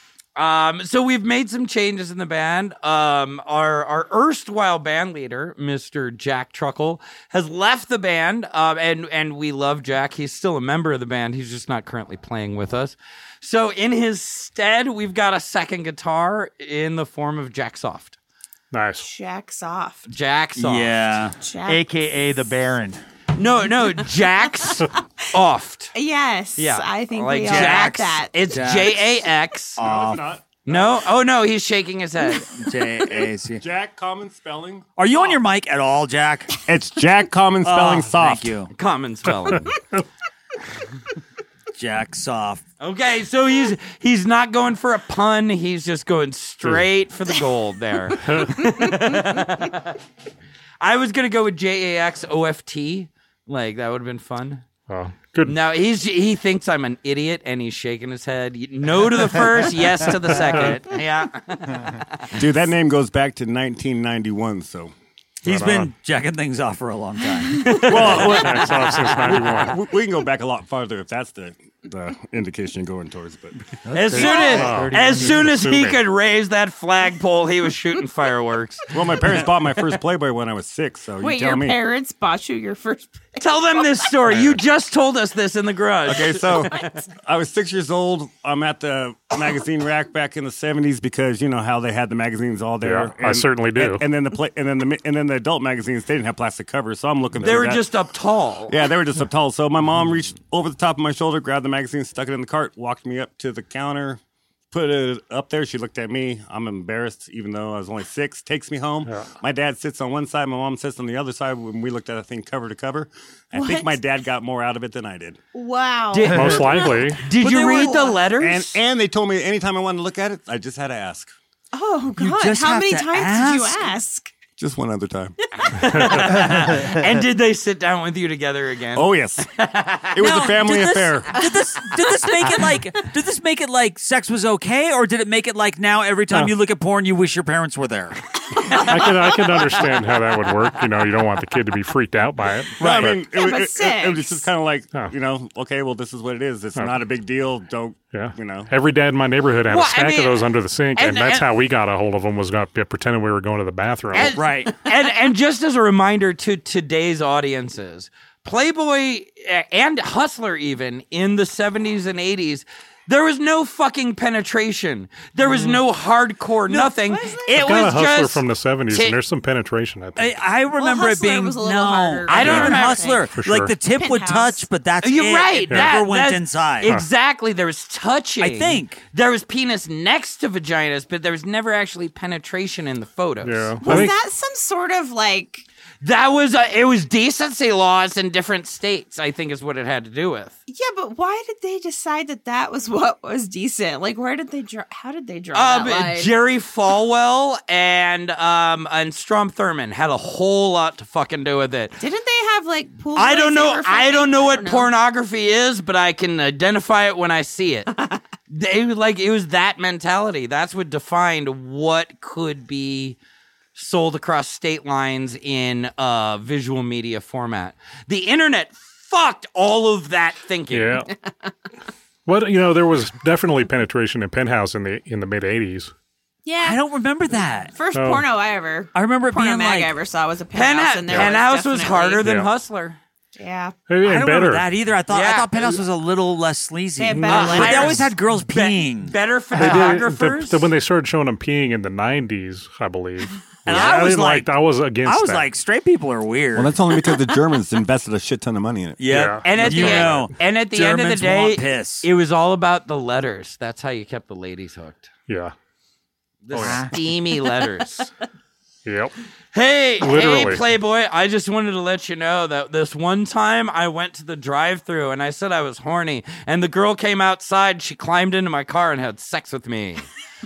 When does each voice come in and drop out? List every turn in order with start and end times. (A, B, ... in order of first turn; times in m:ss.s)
0:00.4-0:18.2 A
0:18.7-0:19.1 B
0:19.0-0:20.0 C
0:20.1-0:21.0 A
0:20.6-0:21.4 D
0:21.4-0:21.8 C
0:21.7-0:23.0 E
0:23.4-0:25.9 A
0:25.9-0:28.4 C
0:26.6-0:29.8 A
0:27.5-0:29.0 D
0:29.8-0:30.3 D
0:29.8-0:31.0 F
0:30.6-0:32.5 A
0:32.6-0:33.6 D
0:33.6-0:34.8 F
0:35.0-0:36.6 D
0:36.7-0:38.6 F
0:37.6-0:38.7 D
0:38.7-0:39.7 A
0:41.8-0:42.6 D
0:42.8-0:50.0 A
0:48.3-0:48.6 B
0:50.8-0:54.7 A
0:54.9-0:55.6 B
0:55.4-1:02.0 A
1:02.4-1:04.9 F
1:05.4-1:08.2 D
1:05.4-1:05.9 B
1:07.6-1:08.3 A
1:07.9-1:13.6 F
1:08.2-1:09.8 B
1:13.8-1:15.5 E
1:13.9-1:18.9 A
1:14.2-1:14.7 C
1:14.3-1:16.0 B
1:18.9-1:21.8 F
1:21.2-1:23.6 C
1:23.4-1:27.0 A
1:26.1-1:37.9 F
1:32.8-1:34.0 B
1:37.4-1:38.8 A
1:38.7-1:44.2 F
1:44.7-1:55.4 F
1:53.5-1:54.0 C
1:55.5-1:58.2 C
1:56.1-1:58.8 A
1:56.3-1:57.3 B
1:57.4-1:58.1 D
1:58.4-2:01.3 F
2:01.7-2:04.3 C
2:02.2-2:03.9 D
2:04.6-2:05.4 F
2:05.5-2:06.2 C
2:05.8-2:06.7 B
2:06.1-2:10.2 A
2:09.0-2:09.5 F
2:10.1-2:11.3 F
2:10.2-2:18.2 D
2:18.7-2:23.2 B
2:22.8-2:28.7 F
2:22.8-2:23.1 D
2:23.3-2:24.5 C
2:26.8-2:27.0 B
2:28.1-2:34.4 B
2:29.7-2:30.4 A
2:31.0-2:31.5 A
2:34.1-2:49.2 A
2:34.2-2:34.8 D
2:45.5-2:45.8 B
2:46.7-2:47.6 C
2:47.6-2:50.4 B
2:50.2-2:57.0 D
2:50.8-2:53.3 C
2:52.3-2:53.2 A
2:52.4-2:52.8 B
2:53.3-2:53.7 B
2:53.9-2:54.7 C
2:55.0-3:04.0 A
2:56.8-2:57.1 B
2:58.4-2:59.0 D
3:03.4-3:04.2 B
3:03.8-3:05.6 C
3:06.0-3:10.6 A
3:10.7-3:16.3 C
3:15.5-3:22.0 A
3:22.0-3:24.9 C
3:23.2-3:27.9 A
3:28.5-3:33.2 A
3:33.8-3:41.0 A
3:40.7-3:41.1 B
3:42.3-3:45.9 B
3:46.4-3:46.8 C
3:46.6-3:47.7 D
3:47.7-3:52.2 C
3:47.9-3:48.2 B
3:48.9-3:49.9 D
3:50.5-3:53.0 A
3:52.2-3:52.5 B
3:53.4-3:53.8 C
3:53.9-3:54.7 B
3:54.0-3:59.9 D
3:55.1-3:55.8 A
3:57.0-3:58.0 C
3:57.1-3:58.1 B
3:57.3-4:00.7 A
3:59.5-4:05.5 B
4:03.7-4:04.5 D
4:05.0-4:06.8 D
4:06.6-4:09.0 F
4:09.0-4:12.1 D
4:09.1-4:10.3 B
4:09.4-4:15.1 A
4:15.3-4:15.6 B
4:16.4-4:18.1 A
4:16.5-4:16.9 B
4:18.8-4:19.2 B
4:19.5-4:30.0 A
4:20.0-4:20.7 B